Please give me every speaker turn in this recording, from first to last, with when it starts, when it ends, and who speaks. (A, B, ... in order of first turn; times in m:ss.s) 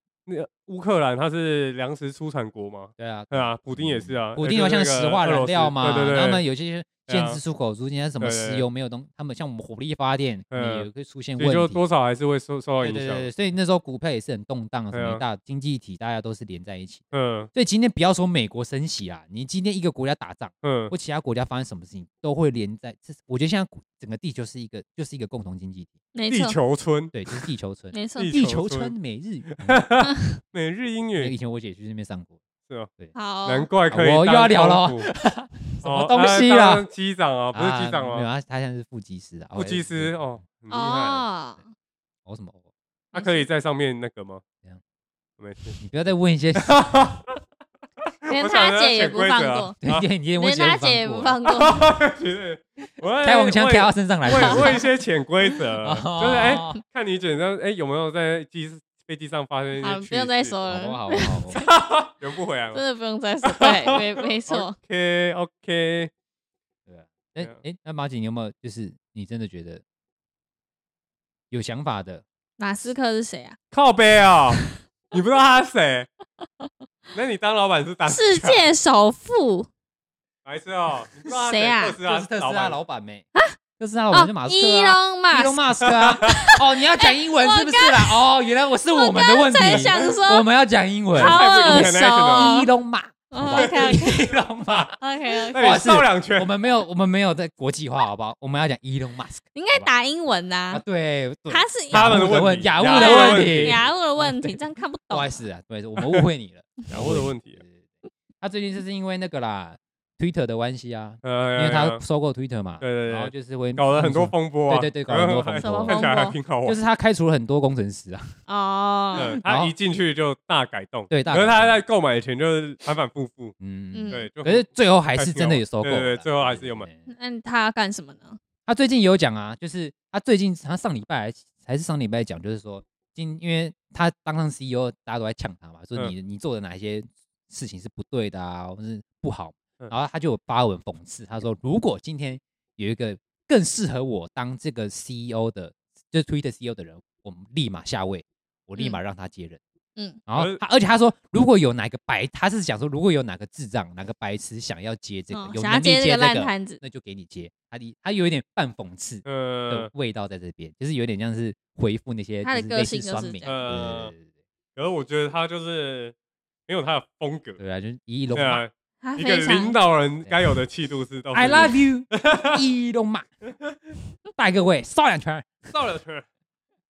0:00.3-0:06.4 A
0:03.0-0:11.8 B
0:07.1-0:07.4 A
0:08.2-0:08.6 A
0:10.5-0:13.3 A
0:12.8-0:25.9 B
0:14.9-0:15.2 A
0:17.1-0:17.5 A
0:20.6-0:20.9 A
0:26.1-0:26.6 C
0:26.3-0:27.2 A
0:27.1-0:29.9 B
0:27.9-0:28.3 C
0:28.2-0:28.9 A
0:29.5-0:31.3 A
0:31.2-0:32.4 B
0:33.1-0:33.7 C
0:33.4-0:35.1 A
0:33.9-0:36.8 B
0:35.8-0:38.3 A
0:37.5-0:40.2 B
0:39.5-0:41.2 A
0:40.7-0:41.7 C
0:42.2-0:42.6 B
0:43.1-0:44.4 A
0:43.1-0:43.4 C
0:45.4-0:45.8 A
0:45.8-0:46.7 B
0:46.6-0:47.4 A
0:48.2-0:50.0 A
0:48.3-0:49.7 C
0:49.8-0:51.4 B
0:50.4-0:51.8 C
0:51.5-1:00.6 A
0:53.2-0:54.8 B
0:54.3-0:54.8 C
0:55.8-0:56.8 B
0:59.8-1:01.7 C
1:00.7-1:01.6 B
1:01.6-1:02.8 A
1:02.7-1:04.8 C
1:03.4-1:06.1 A
1:06.8-1:09.8 B
1:11.5-1:12.2 B
1:12.6-1:13.6 C
1:13.7-1:16.1 A
1:17.1-1:18.6 A
1:18.1-1:19.7 C
1:20.4-1:22.8 A
1:21.3-1:22.0 C
1:22.0-1:23.2 B
1:23.8-1:35.0 B
1:24.1-1:28.2 C
1:25.8-1:26.2 A
1:28.9-1:30.4 C
1:31.1-1:32.5 A
1:31.1-1:32.7 C
1:33.3-1:34.2 C
1:33.5-1:33.9 A
1:35.0-1:35.6 C
1:35.5-1:39.9 B
1:35.5-1:36.5 A
1:39.5-1:40.8 C
1:40.7-1:44.6 B
1:41.5-1:42.3 C
1:41.9-1:43.8 A
1:42.9-1:45.3 C
1:45.1-1:47.8 B
1:46.0-1:46.2 A
1:46.9-1:47.6 A
1:48.4-1:56.1 B
1:51.2-1:52.0 A
1:52.8-1:56.8 A
1:55.6-1:56.3 C
1:56.6-1:58.4 B
1:58.5-1:59.3 C
1:59.2-2:03.5 A
1:59.2-1:59.7 B
2:01.1-2:01.8 B
2:03.6-2:07.0 B
2:03.9-2:04.2 C
2:04.1-2:06.9 A
2:07.1-2:08.4 C
2:08.6-2:29.6 B
2:30.3-2:44.2 B
2:30.3-2:30.6 A
2:35.3-2:36.8 C
2:39.2-2:39.9 A
2:42.4-2:43.7 C
2:43.4-2:44.1 A
2:44.8-2:46.1 A
2:46.7-2:47.6 A
2:47.6-2:48.6 B
2:48.3-2:52.6 A
2:49.0-2:49.8 C
2:51.3-2:53.3 B
2:54.4-2:55.7 B
2:55.7-2:56.2 A